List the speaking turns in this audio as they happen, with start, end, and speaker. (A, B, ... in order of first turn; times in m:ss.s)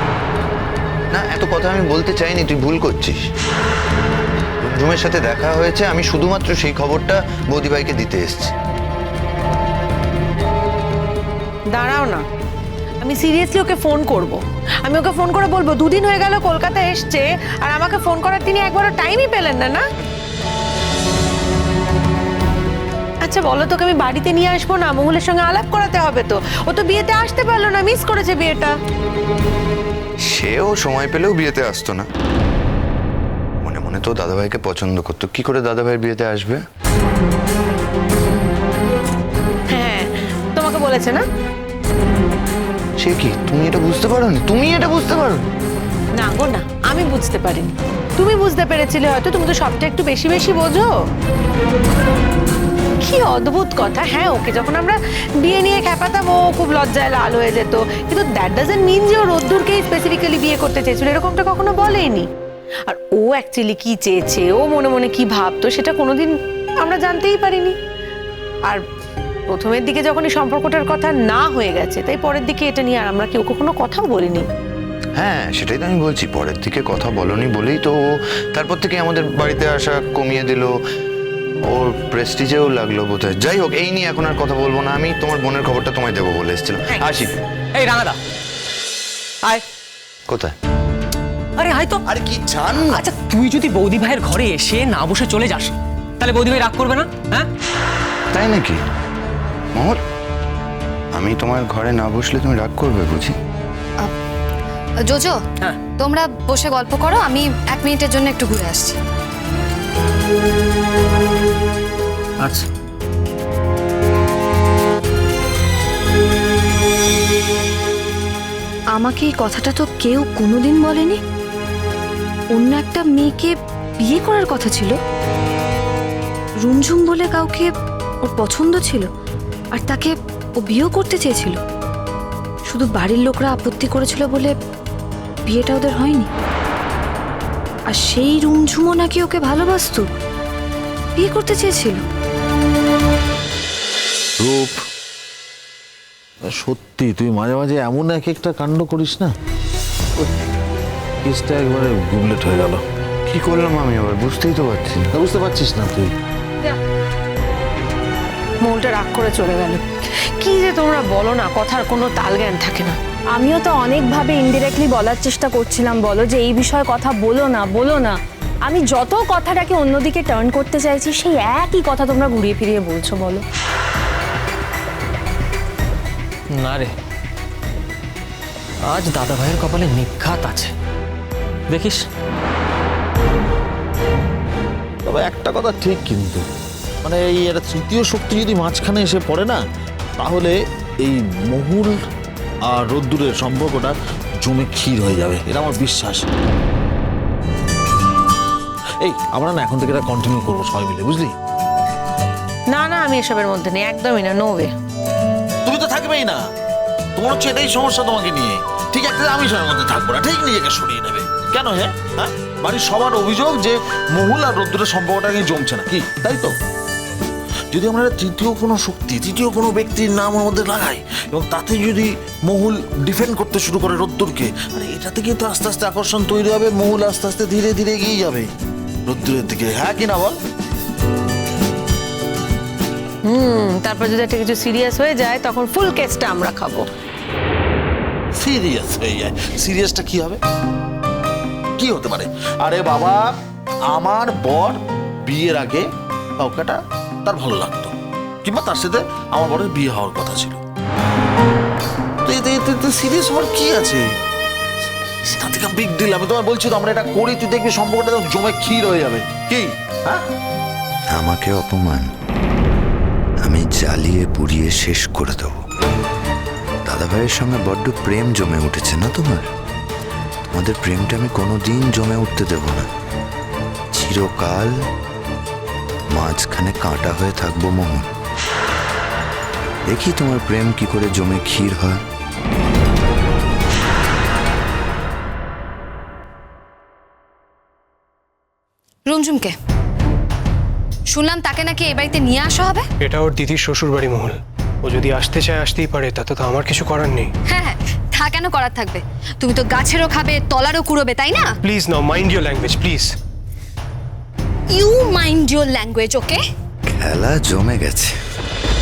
0:01.1-0:03.2 A
0:04.6-0:08.5 A
0:11.8-0:12.2 B
0:13.0-0:19.8 B
0:23.2-0:28.7 B
0:30.2-0:32.1 A
0:33.6-0:36.6 A
0:39.7-0:40.0 B
0:40.6-0:41.2 B
0:43.0-0:45.4 A
0:46.2-0:50.9 B
0:53.0-1:02.2 B
1:02.9-1:06.3 B
1:06.8-1:07.7 B
1:09.5-1:14.4 B
1:15.2-1:18.0 A
1:18.5-1:20.7 A
1:21.7-1:27.3 A
1:27.7-1:28.2 C
1:30.3-1:30.5 A
1:31.6-1:32.0 C
1:32.0-1:33.0 A
1:32.9-1:37.5 C
1:38.3-1:38.8 A
1:41.1-1:43.3 A
1:45.0-1:45.4 D
1:46.0-1:49.0 D
1:52.4-1:52.7 C
1:58.9-2:01.2 D
2:02.5-2:05.0 D
2:06.6-2:07.7 D
2:08.2-2:09.1 D
2:09.7-2:11.6 D
2:12.7-2:14.5 D
2:15.5-2:16.3 D
2:17.9-2:20.1 D
2:21.2-2:22.0 D
2:24.4-2:24.8 E
2:26.5-2:29.3 E
2:31.2-2:32.8 E
2:33.3-2:35.1 A
2:35.1-2:36.1 E
2:38.6-2:39.8 B
2:40.4-2:42.9 B
2:43.3-2:53.4 F
2:56.6-2:56.9 C
2:58.9-3:00.7 C
3:01.7-3:02.0 C
3:05.0-3:06.4 E
3:07.0-3:09.6 E
3:10.2-3:12.0 E
3:12.7-3:16.3 E
3:19.0-3:21.4 E
3:22.7-3:24.7 B
3:25.6-3:26.4 E
3:27.2-3:36.5 E
3:37.7-3:48.5 E
3:49.0-3:50.4 E
3:53.2-3:56.9 B
3:58.3-4:00.4 E
4:01.8-4:03.3 E
4:03.9-4:05.9 E
4:06.4-4:10.6 E
4:12.2-4:14.1 E
4:15.2-4:20.2 E
4:21.1-4:22.1 A
4:23.4-4:25.6 A
4:26.8-4:29.4 A
4:30.5-4:32.9 A
4:33.9-4:34.7 A
4:36.1-4:38.1 A
4:39.9-4:42.0 A
4:49.1-4:49.5 D
4:51.1-4:52.8 D
4:53.0-4:57.3 G
4:57.5-5:01.5 D
5:01.6-5:03.2 G
5:04.7-5:06.4 D
5:06.9-5:08.1 A